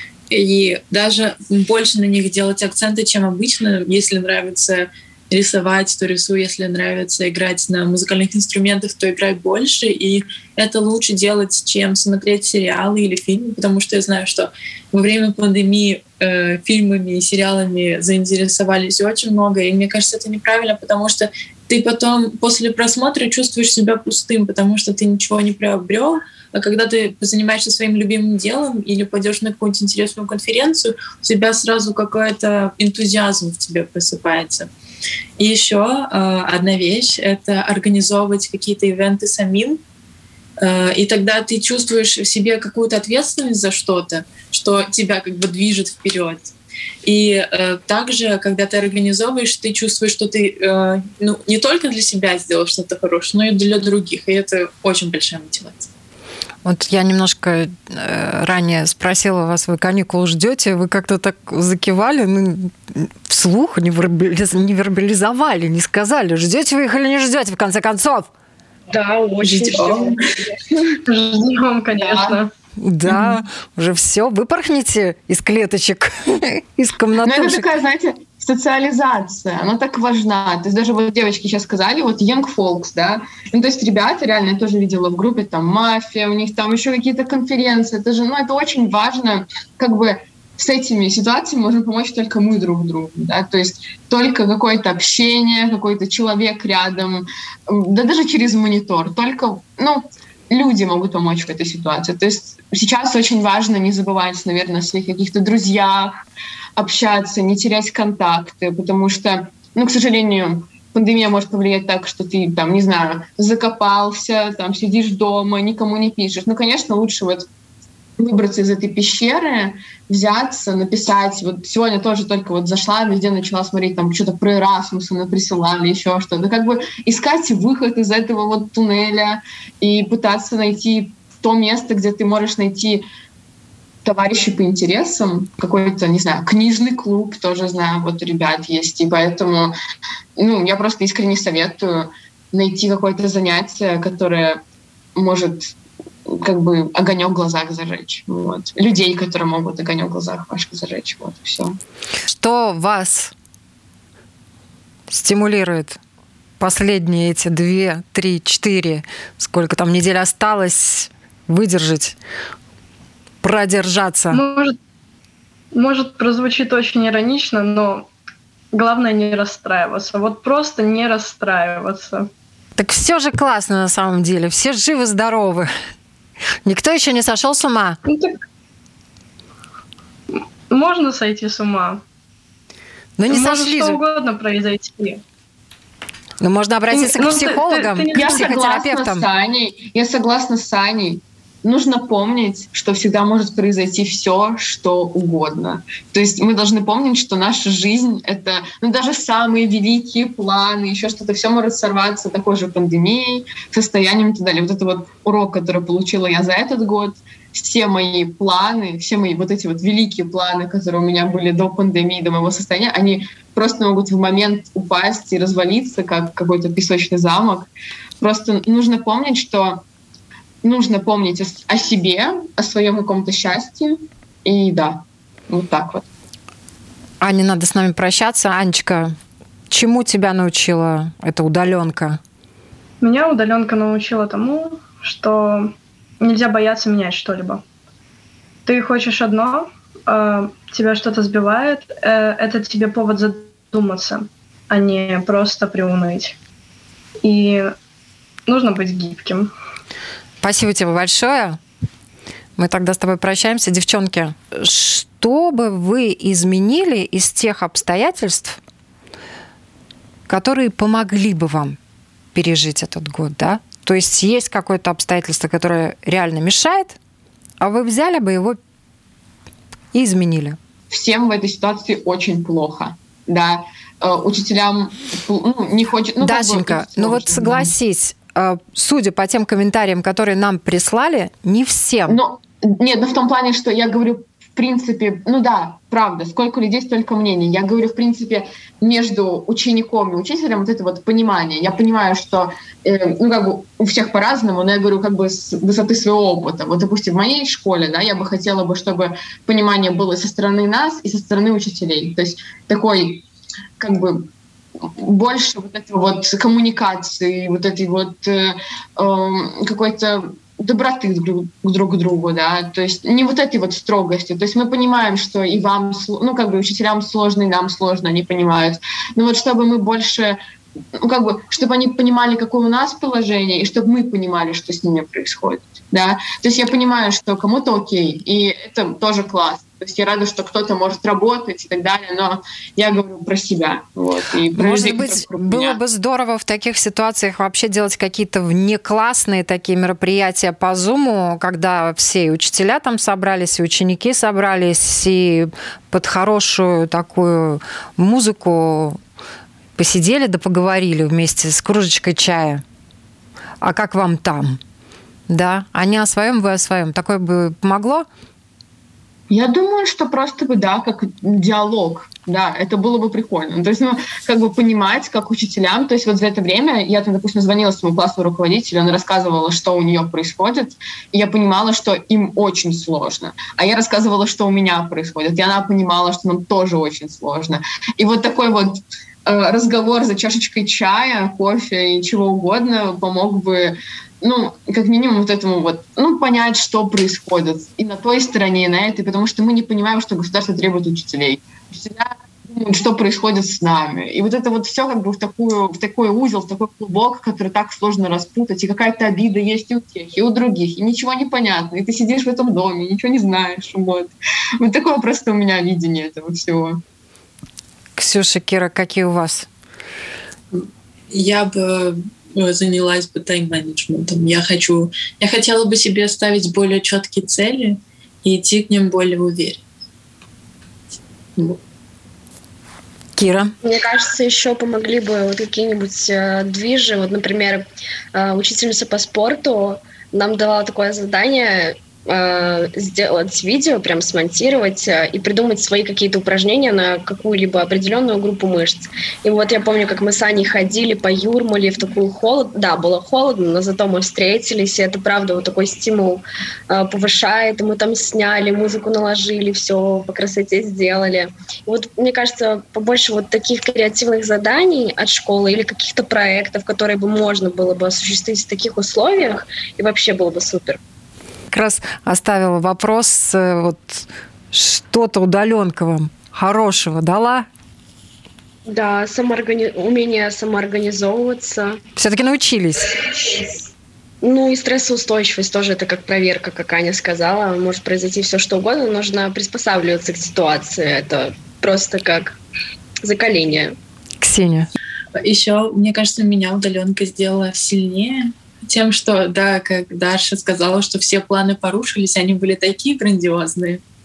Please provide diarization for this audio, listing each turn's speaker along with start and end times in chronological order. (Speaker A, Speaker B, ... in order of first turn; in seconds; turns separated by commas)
Speaker A: 0.3-34.7, Speaker A: 35.4-39.8, Speaker A: 40.6-46.5, Speaker A: 47.0-55.9, Speaker B: 56.6-68.3, Speaker C: 68.9-71.0, Speaker D: 69.6-70.0, Speaker E: 71.1-72.5, Speaker D: 72.0-72.4, Speaker B: 72.8-77.7, Speaker D: 73.1-73.4, Speaker D: 77.2-106.2, Speaker D: 106.8-117.5, Speaker D: 118.2-133.0, Speaker D: 134.0-139.7, Speaker D: 140.4-144.6, Speaker D: 145.2-145.7, Speaker D: 146.3-151.8, Speaker B: 152.3-153.3, Speaker B: 155.1-156.0, Speaker B: 156.6-162.2, Speaker B: 163.4-164.4, Speaker E: 164.3-164.8, Speaker E: 165.7-168.1, Speaker E: 168.7-172.3, Speaker B: 172.8-175.7, Speaker B: 176.7-178.0, Speaker E: 178.1-178.4, Speaker E: 180.7-182.0, Speaker B: 183.2-184.0, Speaker E: 183.3-185.2, Speaker B: 186.4-189.2, Speaker E: 186.9-188.5, Speaker D: 188.1-219.8, Speaker D: 220.6-226.1, Speaker B: 227.2-229.2, Speaker B: 229.7-232.2, Speaker E: 233.0-237.6, Speaker E: 238.7-246.4, Speaker E: 247.2-247.7, Speaker E: 248.5-249.5, Speaker B: 250.4-251.6, Speaker B: 252.6-258.6, Speaker B: 260.3-261.8, Speaker B: 262.4-267.0, Speaker B: 267.6-268.6, Speaker B: 269.9-270.6, Speaker D: 270.9-277.7, Speaker B: 276.2-282.2, Speaker D: 282.1-303.2, Speaker D: 303.8-320.4, Speaker D: 321.0-335.8, Speaker B: 334.5-349.0, Speaker B: 349.8-352.6, Speaker B: 353.6-354.6, Speaker B: 355.3-358.1, Speaker D: 359.3-406.8, Speaker B: 408.0-409.5, Speaker A: 410.5-419.6, Speaker B: 423.2-423.5, Speaker C: 423.6-460.8, Speaker B: 461.5-467.5, Speaker C: 468.7-471.8, Speaker B: 472.0-473.0, Speaker C: 473.1-473.5, Speaker C: 474.2-482.4, Speaker C: 483.0-483.8, Speaker B: 484.2-484.7, Speaker A: 485.2-493.8